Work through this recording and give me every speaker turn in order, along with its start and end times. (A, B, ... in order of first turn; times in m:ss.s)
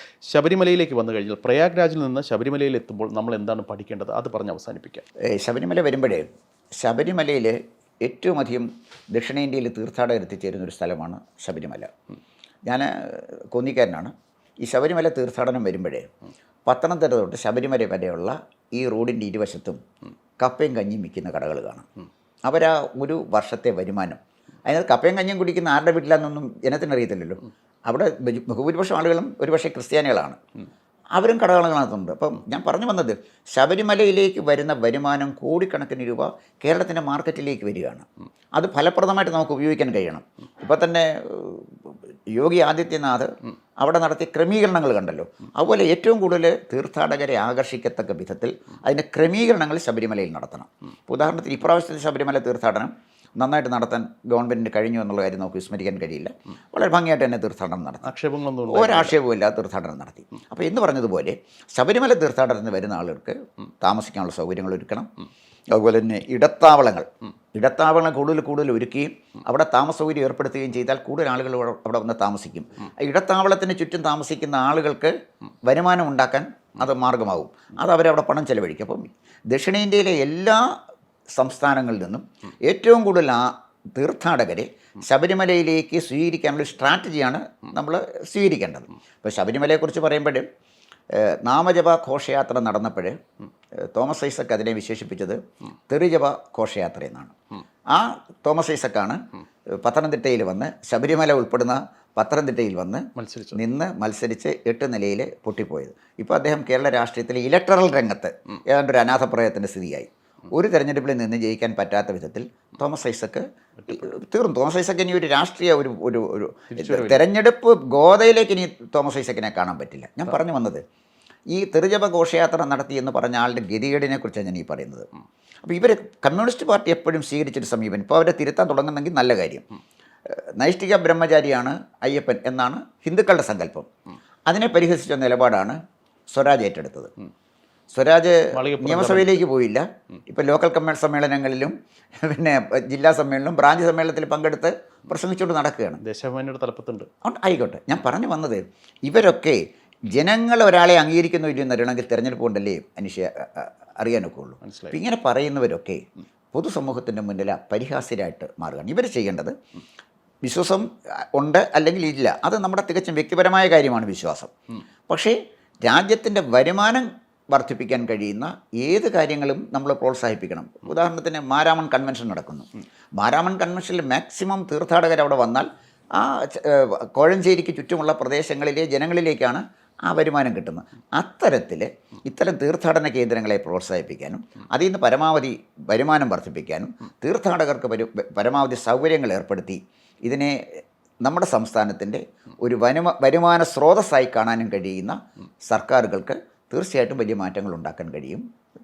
0:00.3-0:05.0 A
0:05.2-0:06.3 B
0:06.8-0:11.9 B
0:12.6-0:16.1 B
0:16.6-0:19.8 B
0:20.4-0:21.9 B
0:22.5-0:30.4 B
0:31.1-0:58.1 B
0:58.0-0:59.2 A
0:58.7-1:05.1 B
1:05.7-1:15.1 B
1:15.7-1:20.7 B
1:21.4-1:30.5 B
1:31.1-1:33.2 B
1:33.8-1:37.4 B
1:37.9-2:00.8 B
1:43.2-1:43.6 A
1:56.7-1:57.2 A
2:01.5-2:05.1 B
2:05.6-2:09.6 B
2:10.3-2:13.9 B
2:14.5-2:15.8 B
2:16.3-2:17.1 B
2:17.9-2:26.0 B
2:18.5-2:19.4 A
2:26.0-2:27.1 A
2:27.2-2:29.6 B
2:30.1-2:39.5 B
2:34.6-2:35.0 A
2:40.4-2:44.5 B
2:45.1-3:15.2 B
3:15.7-3:18.4 B